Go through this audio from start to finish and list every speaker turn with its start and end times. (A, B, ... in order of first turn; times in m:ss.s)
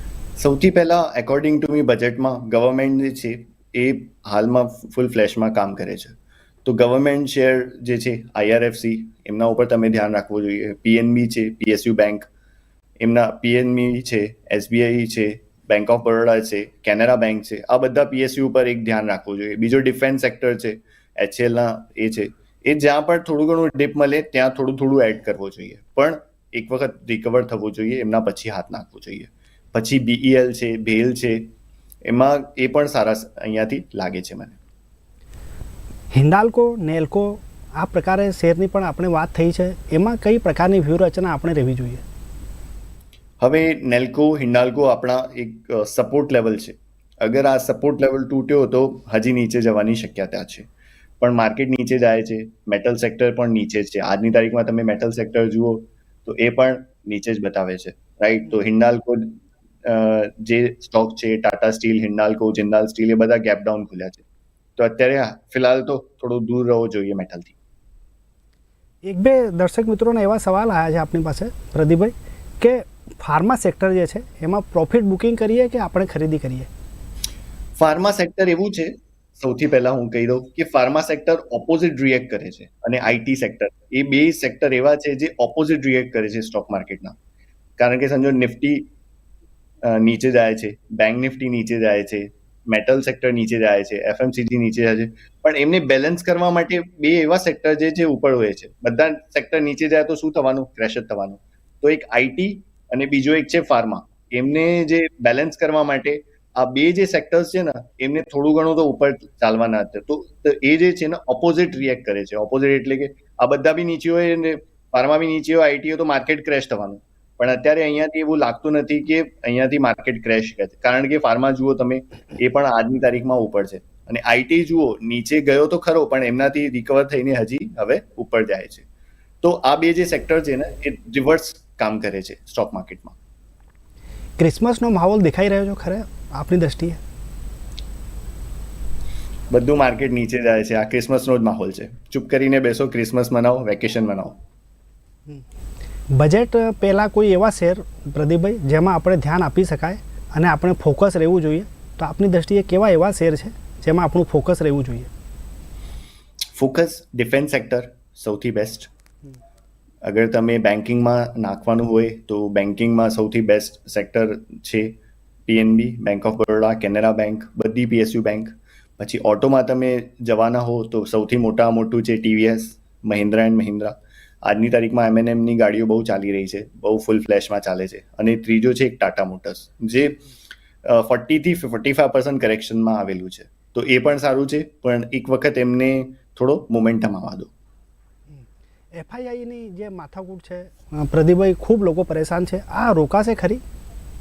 0:00.4-0:12.2 A
0:13.0-0:31.5 A
0:32.0-0:34.6 A
0:36.1-0:42.0 B
0:43.4-0:50.6 A
0:51.2-1:04.2 A
1:04.8-1:07.5 A
1:09.0-1:16.7 B
1:17.8-1:27.1 A
1:27.8-1:28.9 A
1:29.8-2:08.8 A
2:09.4-2:13.2 A
2:14.4-2:17.0 B
2:19.5-2:24.4 A
2:26.1-2:35.1 B
2:36.5-2:38.9 A
2:40.0-3:00.2 A
3:00.8-3:07.5 A
3:08.3-3:13.6 B